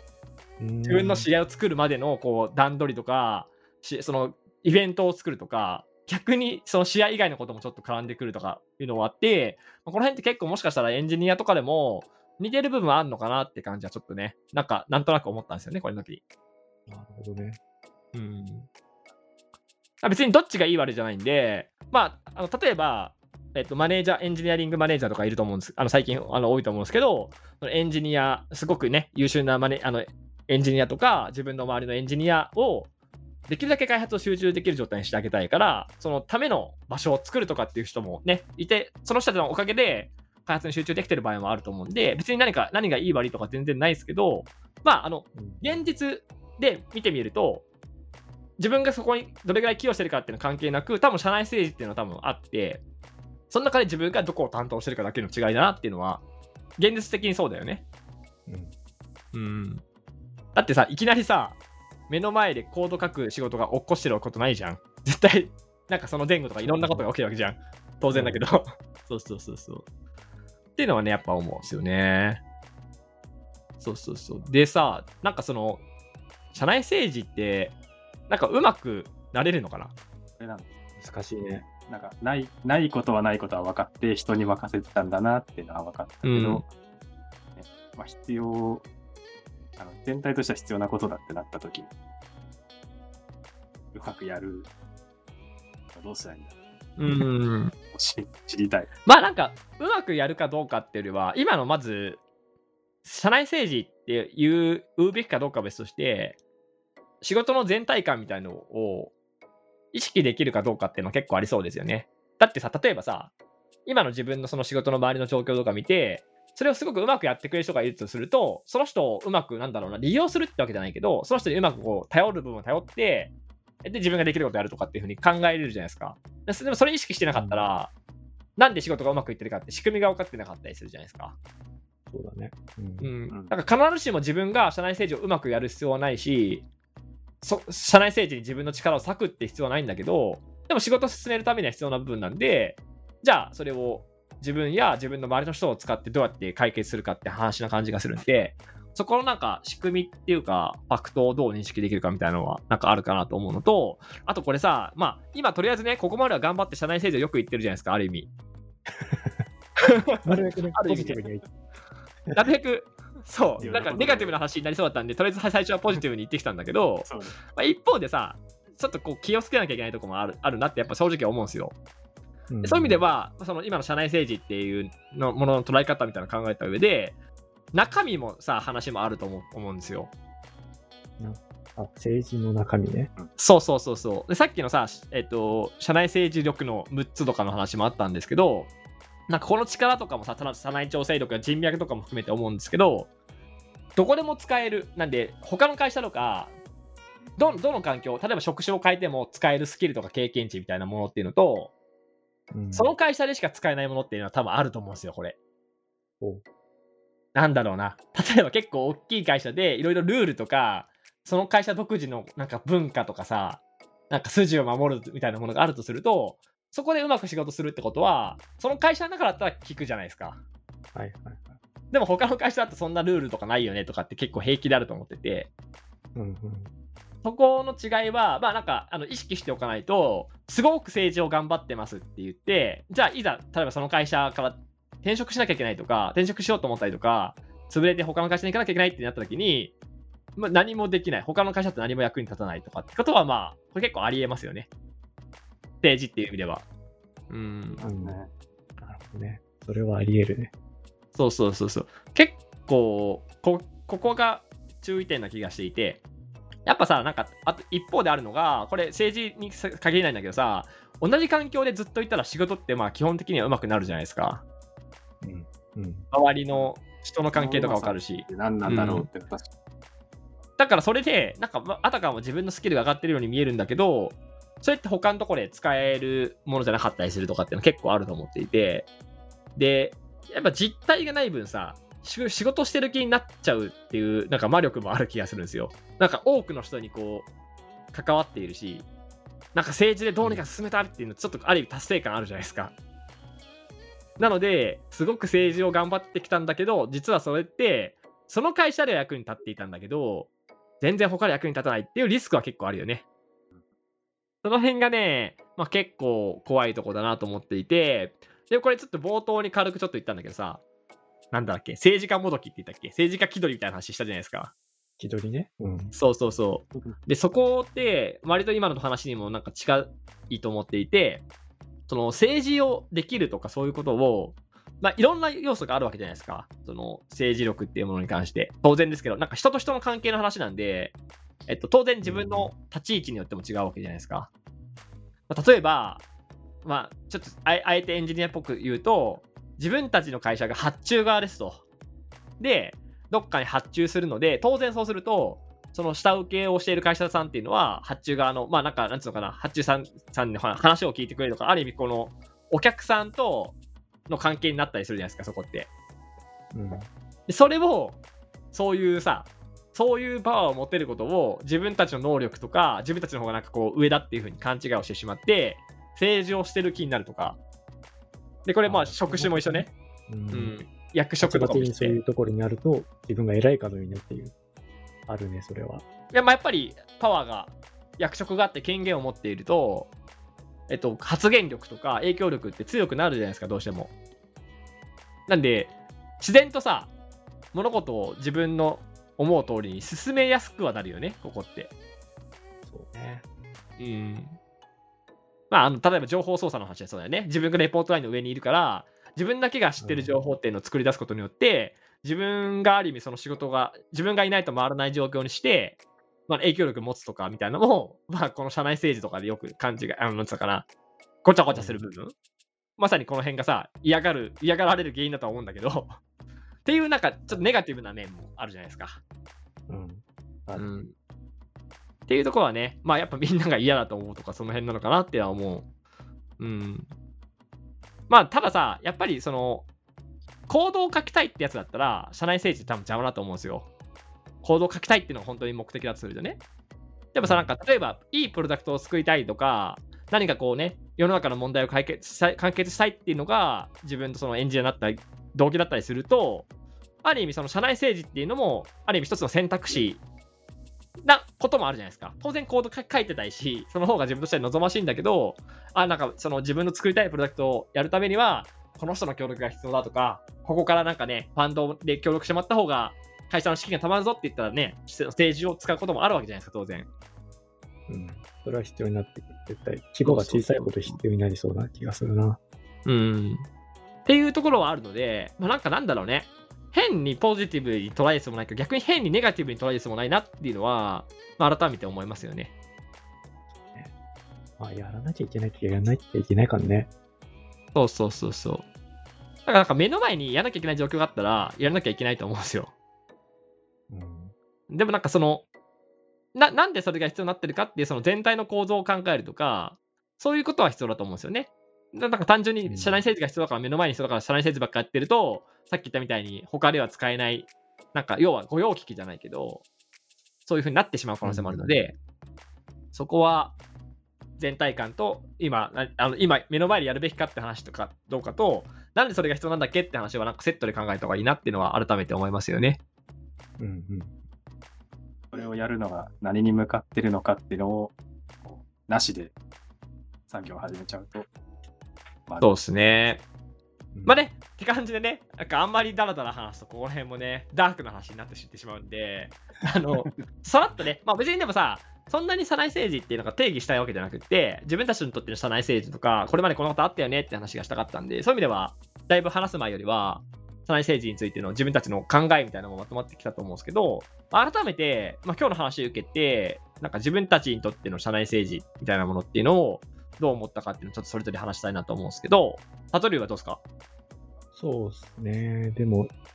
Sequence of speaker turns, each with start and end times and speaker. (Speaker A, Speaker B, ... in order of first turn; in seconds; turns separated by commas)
Speaker A: 0.6-1.3, Speaker B: 0.8-16.2, Speaker A: 16.9-17.6, Speaker B: 18.1-18.7, Speaker B: 20.0-32.9, Speaker B: 33.5-47.6, Speaker A: 45.4-45.9, Speaker B: 48.6-52.8, Speaker B: 53.5-56.2, Speaker B: 56.8-57.9, Speaker A: 58.5-58.7, Speaker B: 59.3-59.8, Speaker B: 60.5-69.8, Speaker A: 66.6-67.0, Speaker A: 68.1-68.5, Speaker B: 70.8-72.4, Speaker B: 73.8-75.8, Speaker B: 76.5-77.8, Speaker B: 78.3-80.0, Speaker C: 80.4-80.7, Speaker A: 81.0-81.7, Speaker C: 81.9-86.7, Speaker B: 86.2-86.6, Speaker C: 87.6-88.9, Speaker C: 89.8-91.9, Speaker C: 93.9-94.7, Speaker C: 95.9-96.6, Speaker B: 97.0-97.7, Speaker C: 97.9-98.9, Speaker B: 99.1-102.2, Speaker B: 103.0-106.4, Speaker B: 107.2-109.1, Speaker B: 109.9-113.3, Speaker B: 113.9-123.3, Speaker B: 123.8-127.9, Speaker A: 127.3-127.6, Speaker B: 128.6-131.4, Speaker A: 132.1-133.1, Speaker B: 133.0-136.7, Speaker B: 137.4-158.3, Speaker A: 158.9-159.5, Speaker B: 159.8-160.2, Speaker A: 160.2-161.5, Speaker B: 160.8-161.2, Speaker B: 162.3-171.8, Speaker C: 163.6-164.4, Speaker C: 167.1-167.3, Speaker A: 172.5-173.0, Speaker B: 172.6-177.2, Speaker B: 177.7-180.1, Speaker A: 181.2-183.1, Speaker B: 183.4-188.7, Speaker B: 189.3-193.1, Speaker B: 194.0-196.5, Speaker B: 197.4-201.7, Speaker A: 202.5-203.0, Speaker B: 202.7-205.4, Speaker B: 207.3-220.4, Speaker A: 220.9-221.6, Speaker B: 221.9-225.5, Speaker A: 226.2-226.7, Speaker B: 227.2-239.7, Speaker B: 240.4-244.7, Speaker B: 245.8-246.7, Speaker B: 247.3-247.8, Speaker C: 247.8-248.3, Speaker A: 247.8-248.2, Speaker A: 248.8-250.5, Speaker B: 251.2-256.0, Speaker B: 256.7-264.4, Speaker A: 265.2-266.1, Speaker B: 266.1-269.1, Speaker C: 267.3-269.5, Speaker B: 270.6-278.9, Speaker B: 279.6-287.3, Speaker B: 287.9-288.9, Speaker B: 289.5-292.7, Speaker A: 290.2-290.4, Speaker B: 294.2-303.1, Speaker B: 304.4-310.6, Speaker B: 311.3-314.5, Speaker A: 315.0-315.9, Speaker B: 315.9-321.2, Speaker B: 321.9-330.9, Speaker B: 331.5-334.3, Speaker A: 332.0-332.5, Speaker B: 335.3-336.0, Speaker B: 336.6-341.6, Speaker B: 342.4-353.6, Speaker B: 354.1-355.7, Speaker A: 356.5-356.9, Speaker B: 357.3-358.0, Speaker B: 358.5-367.4, Speaker B: 368.5-369.7, Speaker A: 368.6-370.6, Speaker B: 370.3-372.0, Speaker A: 371.2-374.4, Speaker A: 375.1-375.8, Speaker B: 376.1-379.9, Speaker B: 380.7-383.9, Speaker B: 385.3-386.9, Speaker B: 387.5-391.7, Speaker A: 392.7-393.2, Speaker B: 393.8-394.4, Speaker B: 395.5-410.7, Speaker A: 399.8-400.2, Speaker B: 411.2-412.1, Speaker A: 411.5-411.8, Speaker B: 412.8-416.0, Speaker B: 416.6-419.0, Speaker A: 419.7-420.6, Speaker B: 420.6-420.9, Speaker B: 422.1-425.7, Speaker B: 426.4-426.9, Speaker B: 428.1-429.7, Speaker B: 430.5-433.7, Speaker B: 434.4-436.4, Speaker B: 437.1-446.5, Speaker A: 437.2-437.5, Speaker B: 447.0-450.0, Speaker B: 451.0-466.9, Speaker A: 467.9-472.4, Speaker B: 470.0-471.0, Speaker B: 472.9-473.5, Speaker B: 474.1-482.5, Speaker A: 483.5-483.9, Speaker A: 484.6-486.9, Speaker B: 487.8-488.6, Speaker B: 489.5-492.7, Speaker A: 493.9-494.3, Speaker B: 494.7-495.5, Speaker B: 496.3-509.6, Speaker A: 502.6-503.1, Speaker B: 510.4-512.0, Speaker A: 511.2-511.8, Speaker B: 512.9-513.6, Speaker B: 514.4-522.8, Speaker A: 523.6-524.2, Speaker C: 525.3-529.4, Speaker C: 530.3-531.3, Speaker C: 532.3-532.5, Speaker B: 532.4-533.2, Speaker A: 534.0-534.3, Speaker B: 534.1-563.6, Speaker A: 564.5-566.1